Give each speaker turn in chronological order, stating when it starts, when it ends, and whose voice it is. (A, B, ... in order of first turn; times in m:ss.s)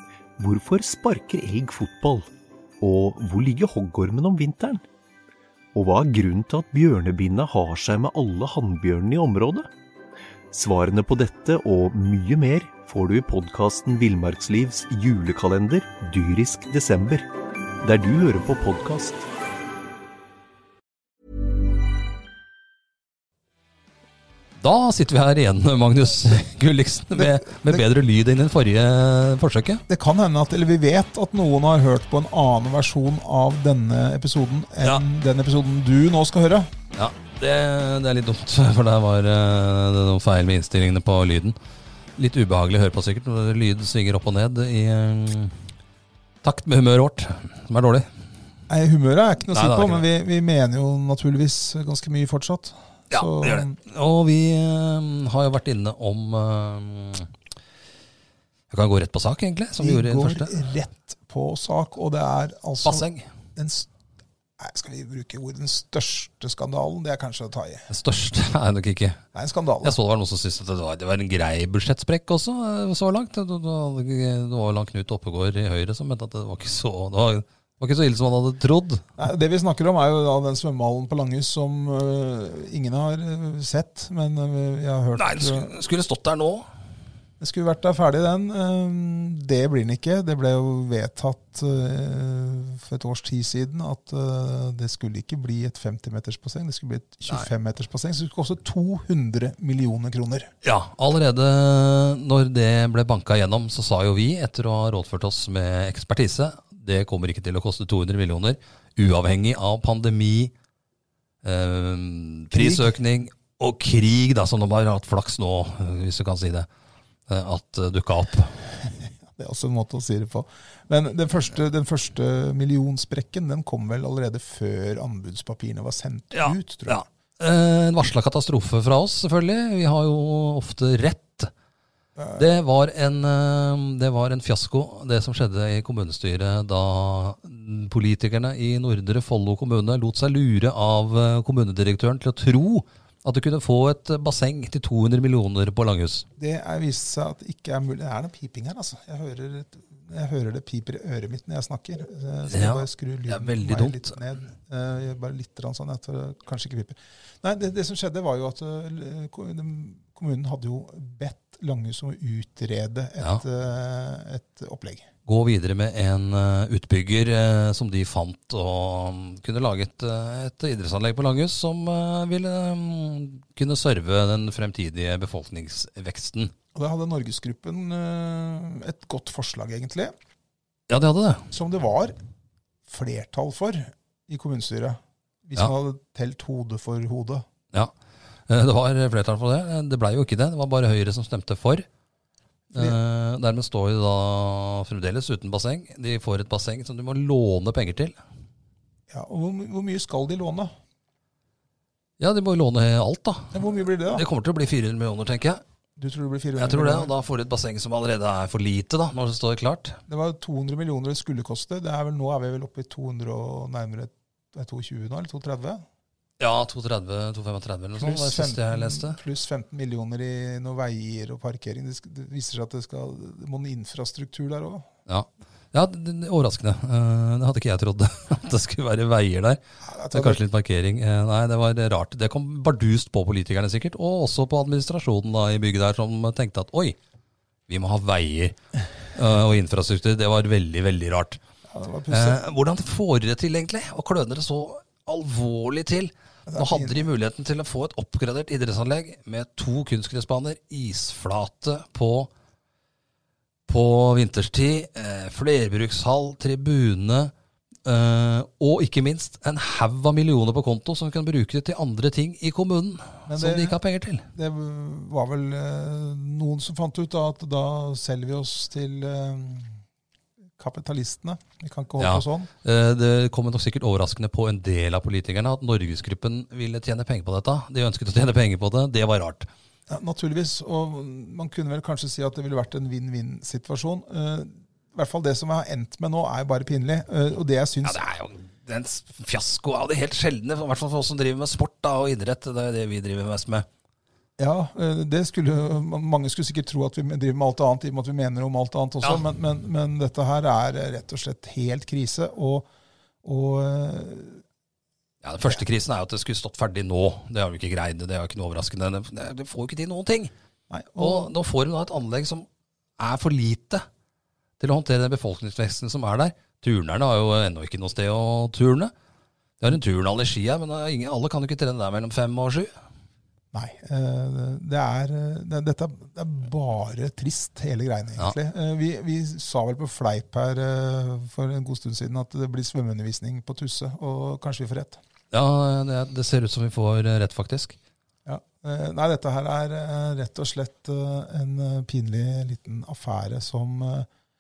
0:00.4-0:02.3 A
0:02.8-0:04.8 A
0:05.7-0:09.7 A
0:10.5-0:17.3 A
0:17.8-0:19.2 A
0:24.6-0:29.8 B
0:27.2-0:27.8 C
0:29.9-0:36.7 C
0:37.0-0:41.6 B
0:42.2-0:45.6 B
0:46.4-0:48.1 B
0:48.7-0:53.8 C
0:49.5-0:50.0 B
0:53.1-0:57.3 B
0:58.7-1:00.6 B
0:59.8-1:03.9 C
1:02.8-1:03.3 B
1:04.6-1:07.9 C
1:07.9-1:09.2 B
1:09.3-1:10.0 C
1:09.8-1:19.0 B
1:19.2-1:25.7 C
1:25.2-1:26.6 B
1:27.4-1:40.5 C
1:40.6-1:50.5 B
1:51.4-1:56.7 B
1:52.5-1:53.0 C
1:57.3-1:58.6 B
1:59.3-2:07.0 C
2:06.3-2:11.5 B
2:12.2-2:12.4 C
2:12.4-2:26.3 B
2:26.4-2:45.1 C
2:32.5-2:34.2 B
2:45.3-2:56.5 B
2:56.7-3:00.1 C
3:00.9-3:01.5 B
3:01.5-3:02.2 C
3:02.9-3:07.5 C
3:08.5-3:11.9 B
3:12.7-3:18.2 B
3:19.1-3:20.7 C
3:22.2-3:25.6 B
3:23.5-3:24.2 C
3:26.0-3:27.1 C
3:26.6-3:30.0 B
3:30.1-3:35.8 C
3:36.4-3:39.2 B
3:38.0-3:44.9 C
3:45.1-3:49.6 B
3:49.8-3:50.4 C
3:50.1-3:57.0 B
3:57.7-3:58.6 B
3:59.1-4:01.4 B
4:01.7-4:02.4 C
4:02.1-4:12.3 B
4:06.5-4:07.1 C
4:13.7-4:17.3 B
4:17.8-4:24.3 B
4:23.3-4:23.8 C
4:24.3-4:29.8 C
4:30.6-4:32.5 C
4:32.0-4:39.5 B
4:39.9-4:48.0 C
4:47.8-4:53.7 B
4:54.4-5:02.7 C
5:03.2-5:04.4 C
5:05.2-5:10.3 B
5:10.7-5:11.3 C
5:11.0-5:12.5 B
5:13.0-5:13.9 B
5:14.6-5:18.9 B
5:19.6-5:22.7 B
5:23.5-5:35.0 C
5:35.3-5:37.8 B
5:38.3-5:44.1 C